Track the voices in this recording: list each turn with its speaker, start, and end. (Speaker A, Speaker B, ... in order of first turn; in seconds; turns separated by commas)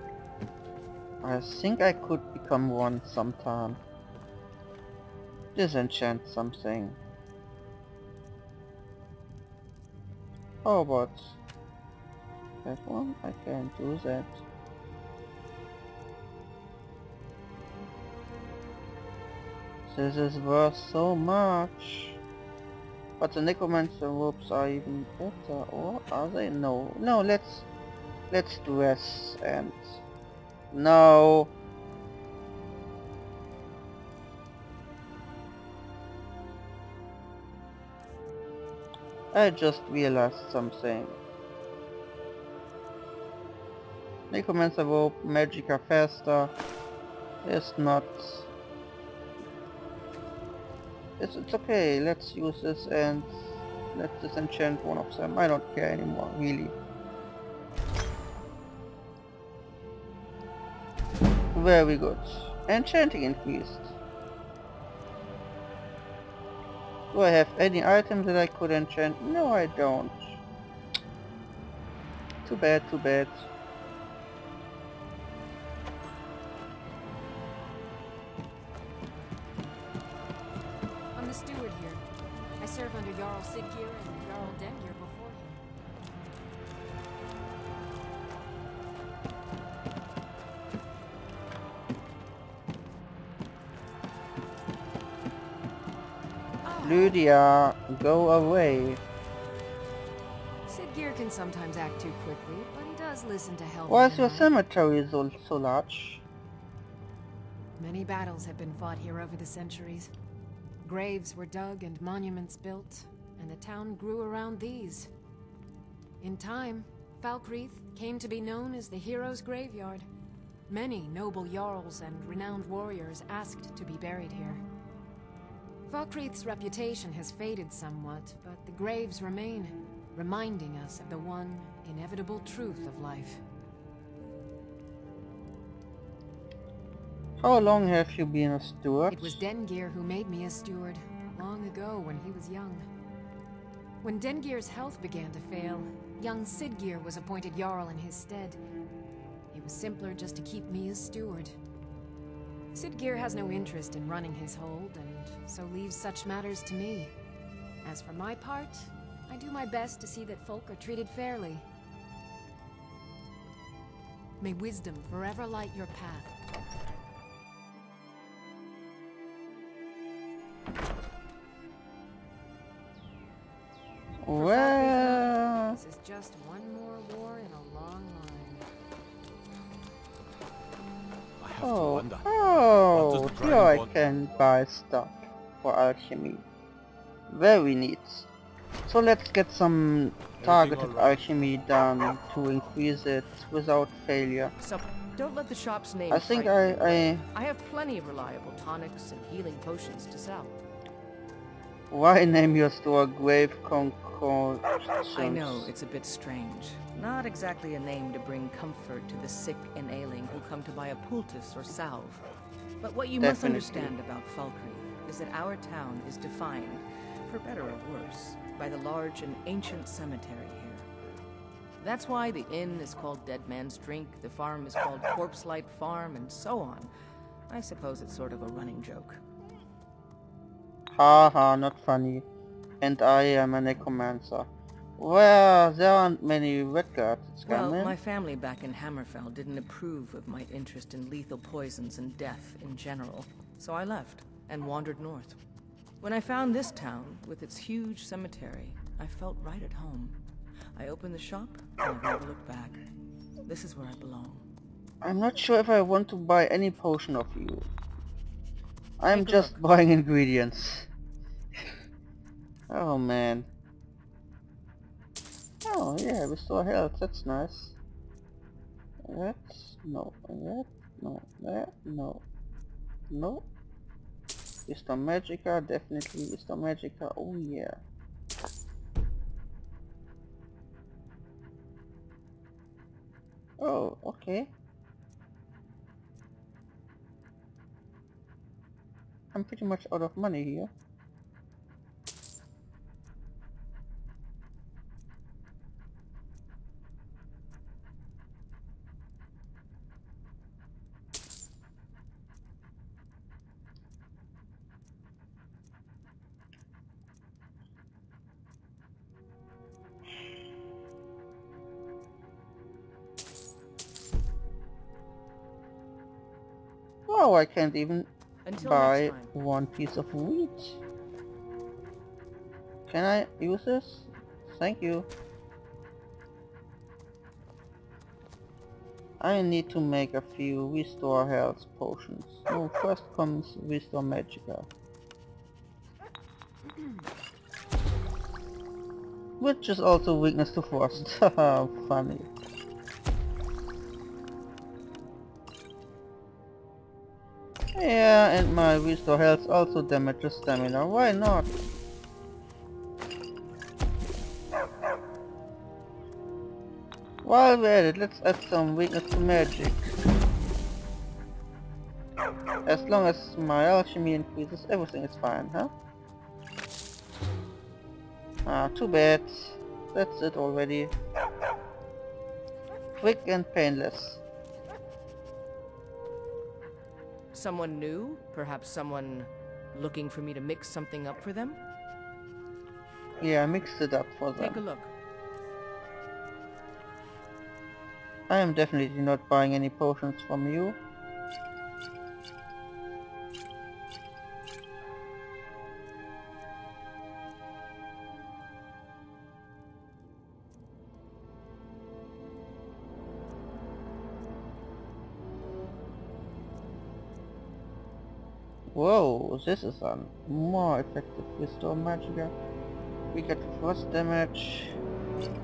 Speaker A: 1.2-3.8, Speaker A: 5.6-7.0, Speaker A: 10.6-11.4, Speaker A: 12.7-14.4, Speaker A: 19.9-22.2, Speaker A: 23.2-27.7, Speaker A: 28.3-30.0, Speaker A: 30.7-31.5, Speaker A: 39.3-41.2, Speaker A: 44.3-46.5, Speaker A: 47.4-48.5, Speaker A: 51.2-56.8, Speaker A: 61.5-64.0, Speaker A: 67.1-70.4, Speaker A: 72.5-73.5, Speaker B: 81.2-82.0, Speaker B: 82.6-85.7, Speaker B: 96.7-97.2, Speaker A: 96.8-99.0, Speaker B: 100.7-104.5, Speaker A: 103.9-106.2, Speaker B: 107.8-110.1, Speaker B: 110.8-115.1, Speaker B: 116.2-120.1, Speaker B: 120.7-124.6, Speaker B: 125.9-133.4, Speaker A: 137.4-139.4, Speaker B: 139.1-142.9, Speaker B: 144.0-148.6, Speaker B: 149.5-151.6, Speaker B: 152.7-157.1, Speaker B: 157.8-161.7, Speaker B: 164.4-166.4, Speaker A: 174.2-175.8, Speaker B: 174.3-178.7, Speaker C: 181.4-182.3, Speaker A: 181.6-186.4, Speaker C: 182.9-183.9, Speaker A: 187.3-188.3, Speaker A: 188.9-194.5, Speaker C: 190.4-191.3, Speaker D: 194.6-200.6, Speaker A: 196.1-197.2, Speaker A: 201.9-205.7, Speaker D: 205.2-212.3, Speaker D: 212.8-220.9, Speaker A: 213.2-213.9, Speaker D: 221.8-226.9, Speaker D: 227.5-229.2, Speaker A: 230.9-232.3, Speaker A: 232.8-237.9, Speaker D: 237.5-245.4, Speaker D: 246.0-250.2, Speaker D: 250.8-252.8, Speaker D: 253.4-254.4, Speaker A: 255.0-257.7, Speaker A: 259.0-260.9, Speaker D: 259.1-259.6, Speaker A: 262.7-263.5, Speaker A: 265.7-267.8, Speaker A: 269.0-272.2, Speaker A: 273.1-273.5, Speaker A: 274.7-277.8, Speaker A: 283.6-284.5, Speaker A: 289.3-290.7, Speaker A: 317.1-320.8, Speaker D: 318.4-319.3, Speaker A: 322.9-325.1, Speaker A: 329.2-334.7, Speaker B: 336.7-337.0, Speaker A: 339.4-342.3, Speaker A: 347.8-351.5, Speaker A: 357.2-359.9, Speaker A: 362.7-365.7, Speaker A: 368.5-370.9, Speaker A: 373.0-374.2, Speaker D: 377.3-381.6, Speaker A: 383.2-384.6, Speaker D: 384.4-384.9, Speaker A: 388.3-390.8, Speaker A: 408.7-412.3, Speaker A: 413.1-414.8